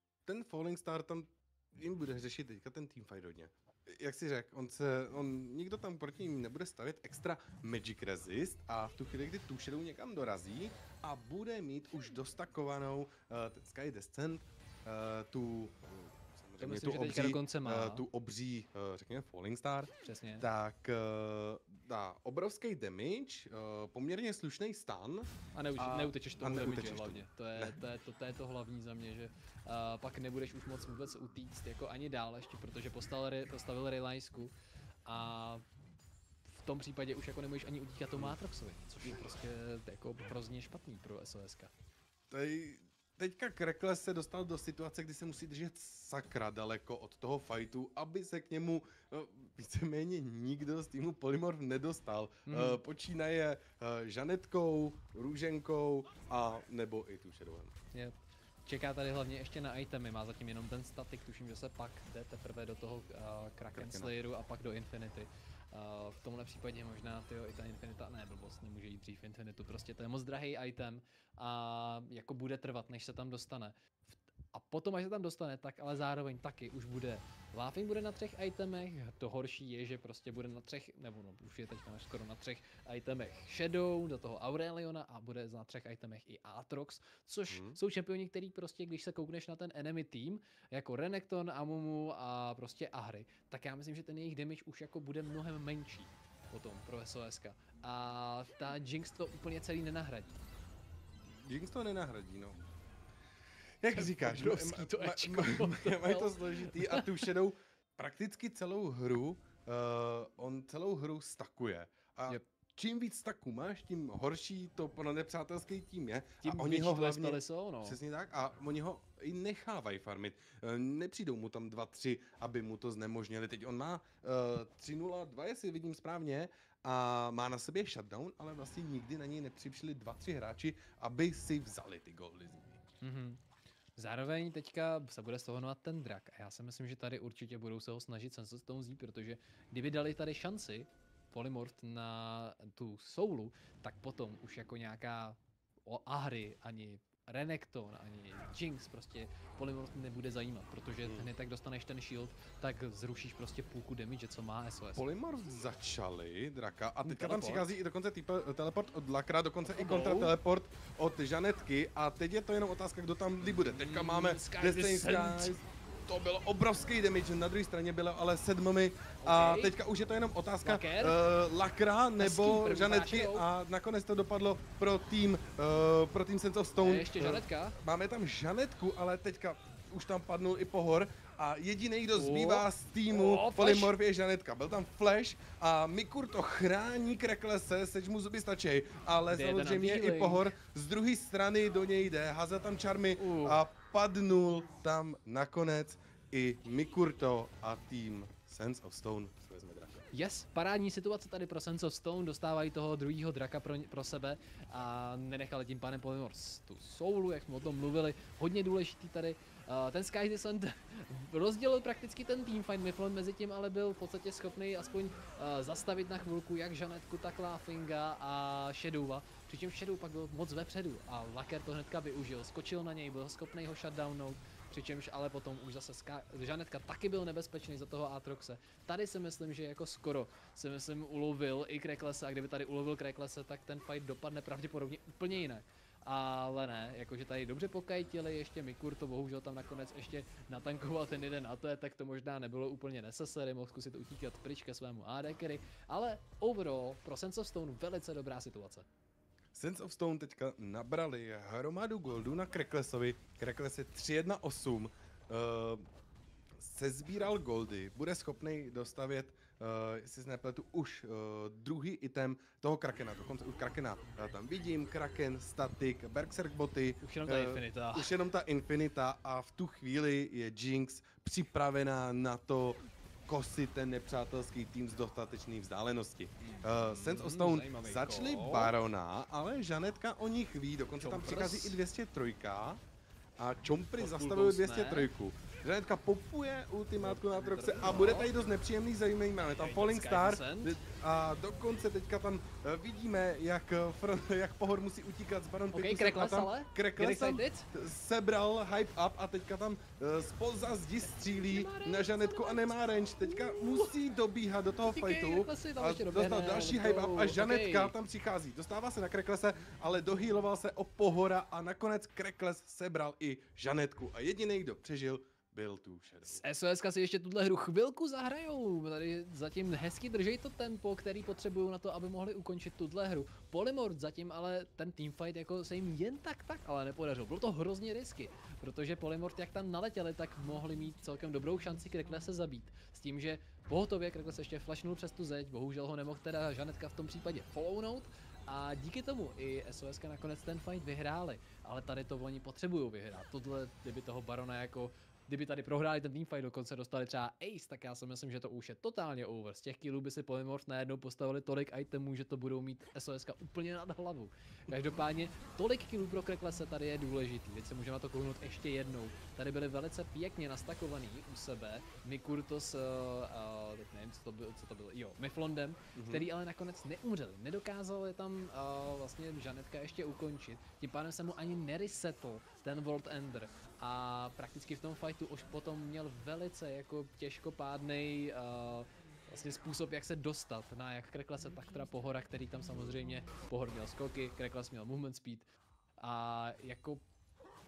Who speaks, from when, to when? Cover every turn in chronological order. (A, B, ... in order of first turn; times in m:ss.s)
0:00.2-0:27.8 A
0:16.6-0:18.0 B
0:20.0-0:20.4 B
0:25.5-0:34.5 B
0:35.0-0:35.6 B
0:36.5-0:41.7 B
0:42.3-0:57.7 A
0:52.5-0:52.8 B
0:57.9-1:40.4 B
1:03.7-1:04.1 A
1:27.5-1:27.8 A
1:41.2-1:42.7 A
1:43.8-2:12.8 A
1:43.9-1:47.1 B
1:56.4-1:58.0 B
2:13.0-2:13.4 B
2:14.0-2:35.0 B
2:31.0-2:31.3 A
2:34.9-3:20.0 A
2:37.0-2:37.7 B
2:39.7-2:40.3 B
2:43.4-2:45.5 B
2:49.2-2:49.7 B
2:50.6-2:51.2 B
2:52.2-2:53.4 B
2:56.8-2:57.8 B
3:02.1-3:03.9 B
3:09.3-3:10.5 B
3:13.2-3:13.6 B
3:20.1-4:08.9 B
4:09.5-4:15.8 A
4:16.6-4:42.8 A
4:27.0-4:28.1 B
4:36.4-4:38.7 B
4:41.0-4:41.8 B
4:43.4-5:16.4 A
4:44.0-4:45.1 B
4:47.0-4:48.3 B
4:49.6-4:50.8 B
4:55.7-4:57.7 B
5:01.3-5:03.9 B
5:04.8-5:07.9 B
5:16.2-6:25.4 B
6:05.9-6:06.3 A
6:26.0-6:27.0 B